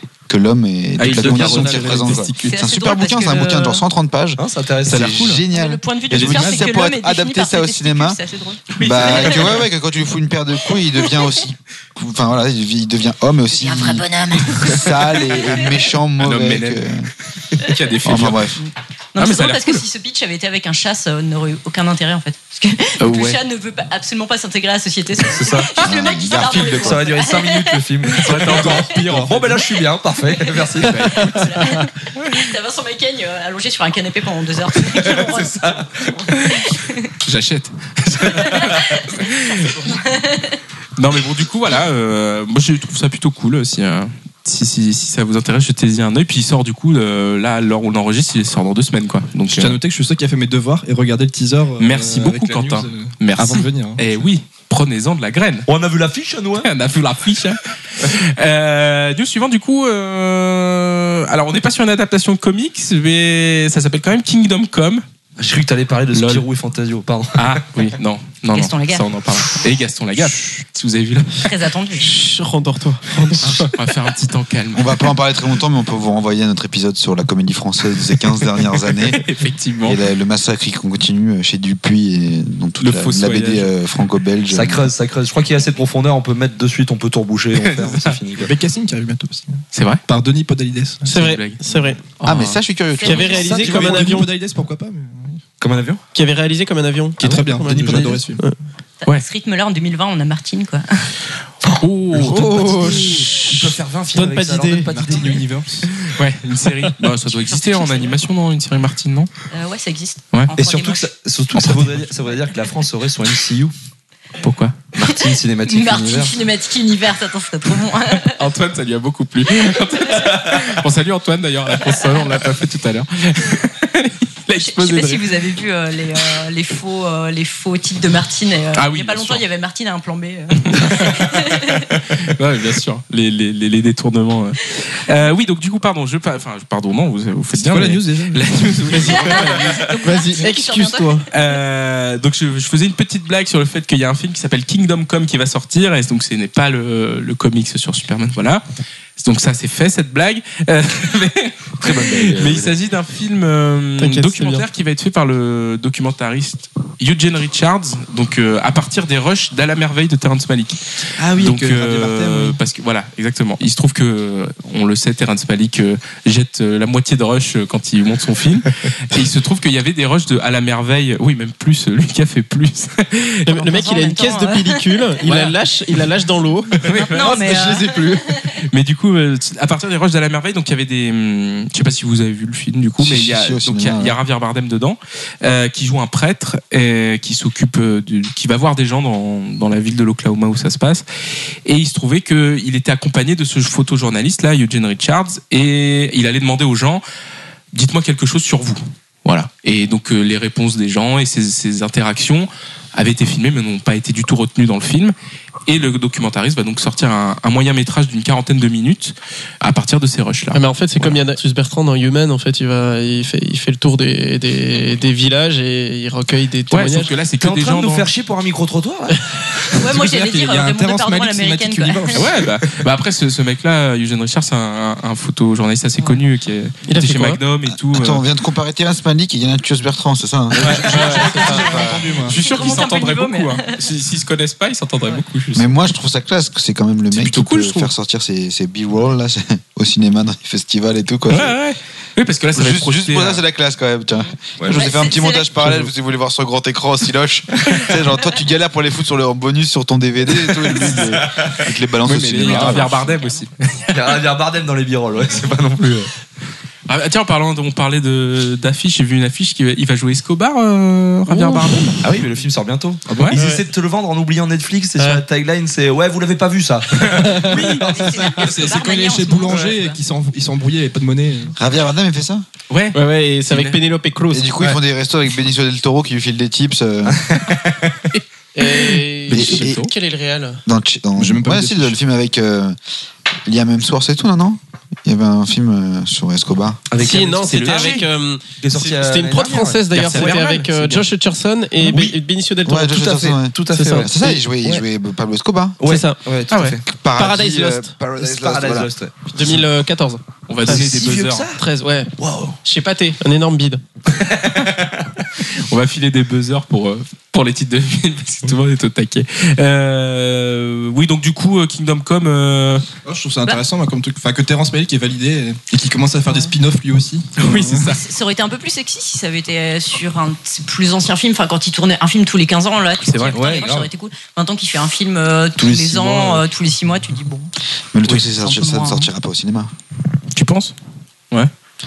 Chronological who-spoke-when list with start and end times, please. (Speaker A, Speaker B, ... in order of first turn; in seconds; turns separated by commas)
Speaker A: 0.3-8.2, Speaker B: 1.0-2.6, Speaker C: 1.0-2.1, Speaker D: 2.5-3.8, Speaker C: 4.4-5.4, Speaker B: 4.9-5.4, Speaker D: 5.5-9.4, Speaker B: 6.1-6.6, Speaker A: 8.8-17.1, Speaker C: 8.8-9.3, Speaker B: 8.9-9.3, Speaker D: 13.5-15.7, Speaker B: 16.2-16.9, Speaker B: 17.6-18.6, Speaker A: 18.1-18.6, Speaker D: 18.6-27.9, Speaker B: 19.2-19.8, Speaker B: 23.0-23.4, Speaker C: 25.2-25.8, Speaker A: 25.8-27.1, Speaker C: 26.4-31.3, Speaker B: 28.2-29.6, Speaker E: 28.4-29.6, Speaker B: 30.8-32.4, Speaker D: 31.2-37.1, Speaker C: 34.9-35.9, Speaker B: 37.2-39.9, Speaker D: 38.4-39.1, Speaker D: 39.9-40.6, Speaker B: 41.0-49.8, Speaker E: 49.5-54.2, Speaker B: 51.8-55.7, Speaker C: 55.7-56.7, Speaker B: 56.6-65.0, Speaker C: 65.4-67.6, Speaker B: 66.1-66.5, Speaker B: 67.4-71.5, Speaker D: 68.5-69.4, Speaker D: 71.5-72.1, Speaker F: 72.0-73.7, Speaker B: 73.4-75.1, Speaker A: 74.7-79.2, Speaker B: 79.1-80.0, Speaker A: 79.8-84.9, Speaker B: 82.8-83.7, Speaker C: 84.5-88.5, Speaker B: 87.6-88.2, Speaker E: 88.4-91.1, Speaker B: 89.7-90.0, Speaker F: 91.1-92.0, Speaker B: 91.1-91.6, Speaker B: 92.2-92.6, Speaker A: 92.2-93.4, Speaker D: 93.0-93.6, Speaker F: 93.0-94.3, Speaker E: 93.3-95.4, Speaker C: 93.4-94.1, Speaker C: 95.6-96.0, Speaker F: 96.1-98.5, Speaker E: 97.2-98.4, Speaker D: 99.0-101.1, Speaker C: 101.7-105.5, Speaker B: 101.8-103.1, Speaker F: 102.2-103.6, Speaker F: 104.1-104.9, Speaker E: 104.8-105.9, Speaker B: 106.0-109.3, Speaker D: 107.2-108.2, Speaker D: 109.5-111.1, Speaker C: 110.6-113.7, Speaker B: 111.6-111.9, Speaker B: 114.4-114.8, Speaker C: 114.9-116.4, Speaker D: 115.1-118.4, Speaker B: 118.3-125.5, Speaker D: 122.0-122.2, Speaker D: 124.5-132.0, Speaker B: 128.7-129.4, Speaker B: 130.6-139.9, Speaker E: 137.5-139.5, Speaker D: 139.0-141.4, Speaker F: 140.0-141.2, Speaker B: 141.3-148.6, Speaker B: 149.2-173.5, Speaker C: 151.8-152.8, Speaker F: 154.0-154.7, Speaker E: 161.4-162.3, Speaker F: 173.5-178.2, Speaker D: 173.5-175.3, Speaker B: 176.8-177.5, Speaker D: 176.9-178.6, Speaker E: 177.3-177.7, Speaker B: 178.5-191.1, Speaker A: 183.0-184.2, Speaker B: 191.7-197.0, Speaker B: 197.7-205.2, Speaker B: 205.7-211.2, Speaker F: 210.5-217.1, Speaker B: 216.7-218.1, Speaker C: 217.4-219.3, Speaker D: 219.8-222.3, Speaker E: 219.8-222.4, Speaker B: 222.1-228.2, Speaker F: 226.9-227.4, Speaker A: 227.7-232.1, Speaker E: 230.6-232.4, Speaker B: 230.7-231.6, Speaker D: 230.9-233.8, Speaker B: 232.3-235.7, Speaker A: 235.6-241.6, Speaker B: 237.1-237.9, Speaker B: 241.3-243.4, Speaker A: 242.5-253.1, Speaker C: 244.6-245.0, Speaker D: 244.7-245.6, Speaker C: 250.7-251.6, Speaker B: 252.1-254.2, Speaker C: 253.9-256.1, Speaker B: 256.9-262.0, Speaker F: 261.3-261.8, Speaker C: 262.0-268.5, Speaker B: 263.1-263.4, Speaker F: 263.4-263.6, Speaker F: 265.0-265.2, Speaker F: 267.2-267.5, Speaker B: 267.5-267.8, Speaker D: 267.6-270.0, Speaker E: 268.1-271.6, Speaker A: 271.6-272.4, Speaker B: 272.7-273.0, Speaker F: 272.9-274.7, Speaker B: 273.5-273.8, Speaker A: 274.3-277.2, Speaker C: 277.1-278.0, Speaker B: 278.1-279.9, Speaker F: 278.6-280.6, Speaker A: 279.3-279.9, Speaker A: 280.7-282.8, Speaker E: 281.2-282.0, Speaker A: 283.5-286.8, Speaker C: 286.9-288.1, Speaker F: 287.0-293.1, Speaker B: 287.4-288.0, Speaker C: 288.6-290.4, Speaker B: 289.9-291.1, Speaker C: 291.9-292.2, Speaker A: 292.6-295.8, Speaker C: 292.9-294.8, Speaker F: 293.7-294.1, Speaker C: 295.8-296.8, Speaker F: 295.8-296.2, Speaker B: 296.5-296.8, Speaker A: 296.9-298.9, Speaker F: 297.2-297.9, Speaker C: 298.1-299.2, Speaker F: 299.3-301.0, Speaker B: 300.5-301.5, Speaker C: 300.6-301.6, Speaker F: 301.6-302.1, Speaker C: 302.2-302.6, Speaker F: 302.6-303.8, Speaker B: 304.2-304.8, Speaker B: 305.4-312.9, Speaker E: 313.1-317.9, Speaker B: 317.4-318.0, Speaker D: 317.9-327.5, Speaker B: 323.0-323.7, Speaker C: 323.3-323.9, Speaker C: 325.6-326.4, Speaker A: 327.9-329.7, Speaker D: 328.2-329.1, Speaker B: 330.3-330.8